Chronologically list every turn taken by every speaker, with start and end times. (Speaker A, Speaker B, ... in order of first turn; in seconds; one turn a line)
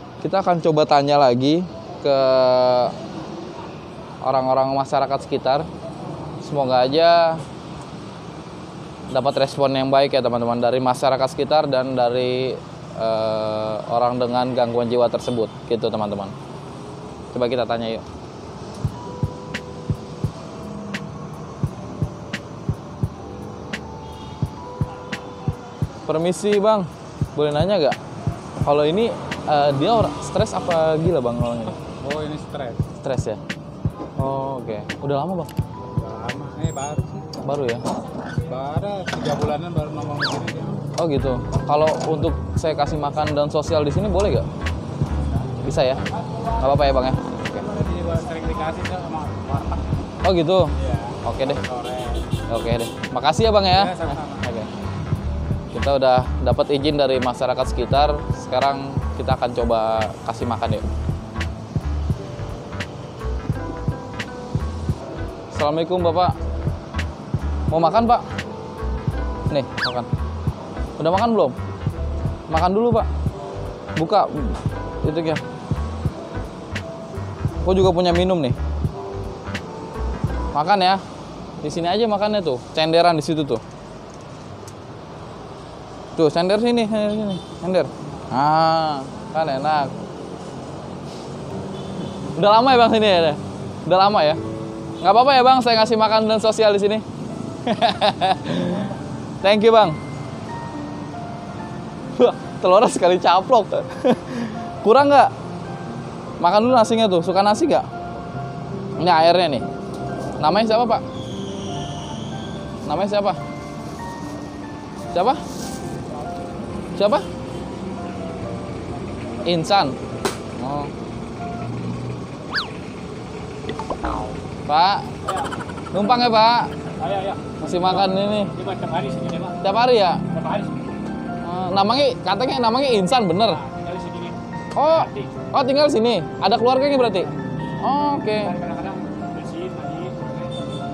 Speaker A: 0.2-3.0
Speaker A: 4.2-5.7
Speaker A: 6.4-7.4
Speaker A: 9.1-16.3
Speaker A: 17.3-18.0
Speaker A: 26.1-28.0
Speaker A: 28.6-31.8
Speaker B: 31.9-32.8
Speaker A: 33.0-33.4
Speaker A: 34.2-35.5
Speaker B: 35.9-37.3
Speaker A: 37.3-37.8
Speaker B: 38.5-40.8
Speaker A: 40.9-44.5
Speaker A: 45.6-47.7
Speaker B: 47.7-49.8
Speaker A: 50.2-51.7
Speaker B: 50.8-52.4
Speaker A: 52.5-54.7
Speaker B: 53.9-54.4
Speaker A: 55.7-60.9
Speaker A: 65.5-66.3
Speaker A: 67.7-68.2
Speaker A: 69.5-70.1
Speaker A: 71.0-71.5
Speaker A: 72.5-73.1
Speaker A: 74.0-75.4
Speaker A: 77.6-78.5
Speaker A: 80.5-81.0
Speaker A: 81.6-83.6
Speaker A: 86.1-89.9
Speaker A: 92.2-94.4
Speaker A: 95.0-97.0
Speaker A: 97.6-100.0
Speaker A: 102.1-105.3
Speaker A: 106.4-107.9
Speaker A: 109.0-109.7
Speaker A: 110.4-111.0
Speaker A: 112.8-113.4
Speaker A: 115.1-115.4
Speaker A: 117.0-117.3
Speaker A: 119.4-120.0
Speaker A: 120.6-120.9
Speaker A: 124.7-125.2
Speaker A: 125.9-126.9
Speaker B: 127.0-127.5
Speaker A: 127.4-128.7
Speaker B: 128.7-129.5
Speaker A: 129.4-130.4
Speaker B: 130.4-130.7
Speaker A: 131.4-133.7
Speaker B: 133.8-134.3
Speaker A: 134.7-138.7
Speaker B: 138.7-140.4